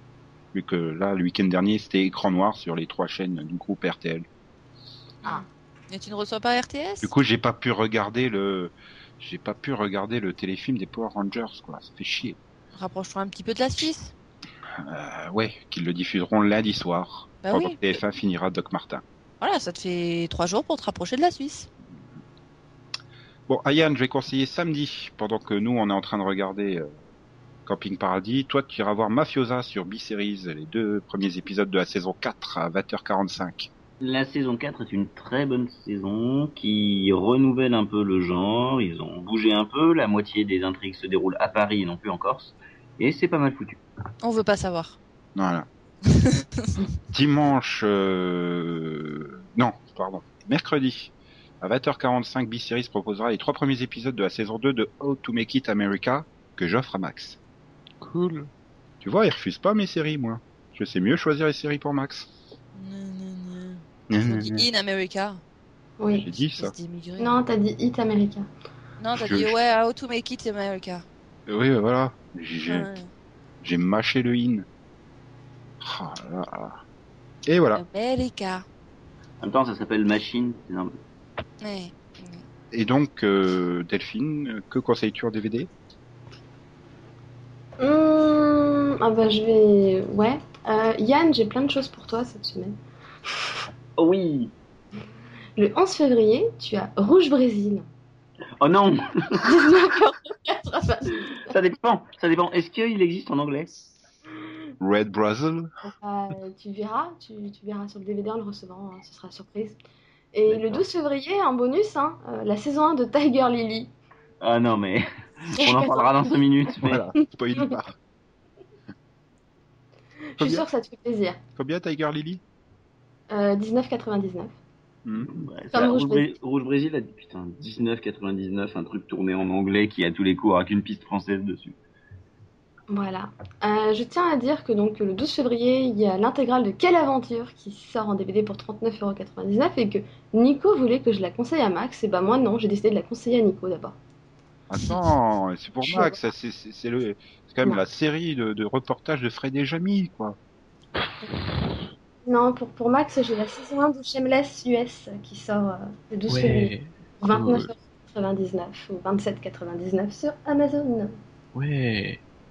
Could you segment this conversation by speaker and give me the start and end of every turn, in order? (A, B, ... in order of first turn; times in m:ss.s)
0:00.5-0:04.3 A
0:05.2-0:07.1 B
0:07.0-0:12.4 A
0:12.8-0:14.1 B
0:14.8-0:19.0 A
0:17.4-0:17.9 B
0:19.4-0:21.7 B
0:23.5-0:26.9 A
0:27.7-0:33.7 A
0:34.0-0:43.8 C
0:44.2-0:45.0 B
0:45.4-0:45.7 A
0:46.1-0:46.9 B
0:47.1-0:57.4 A
0:58.0-0:58.5 D
0:59.0-1:02.3 A
1:02.7-1:05.4 B
1:04.1-1:04.7 A
1:06.0-1:06.3 E
1:06.2-1:06.7 A
1:06.5-1:07.4 B
1:07.2-1:08.5 E
1:09.0-1:11.0 B
1:09.2-1:09.6 A
1:11.5-1:12.9 A
1:12.7-1:13.1 B
1:13.6-1:14.7 A
1:15.8-1:16.8 A
1:17.5-1:17.8 A
1:17.7-1:18.6 B
1:19.4-1:20.9 C
1:21.6-1:22.4 B
1:22.7-1:25.7 A
1:27.8-1:32.8 E
1:34.0-1:34.5 C
1:35.6-1:37.8 E
1:38.6-1:39.5 C
1:39.4-1:41.5 E
1:41.5-1:43.7 C
1:44.8-1:45.7 A
1:45.9-1:49.8 E
1:50.3-1:53.9 E
1:50.5-1:50.8 A
1:54.4-1:57.0 C
1:55.6-1:56.1 E
1:56.8-1:58.0 A
2:00.4-2:01.4 E
2:00.4-2:00.7 A
2:01.6-2:02.4 A
2:03.3-2:04.5 E
2:05.0-2:05.5 A
2:05.2-2:11.8 C
2:05.7-2:06.3 E
2:12.9-2:24.0 E
2:24.7-2:30.4 A
2:25.8-2:26.1 E
2:32.2-2:41.2 E
2:36.3-2:37.7 D
2:41.6-2:42.2 D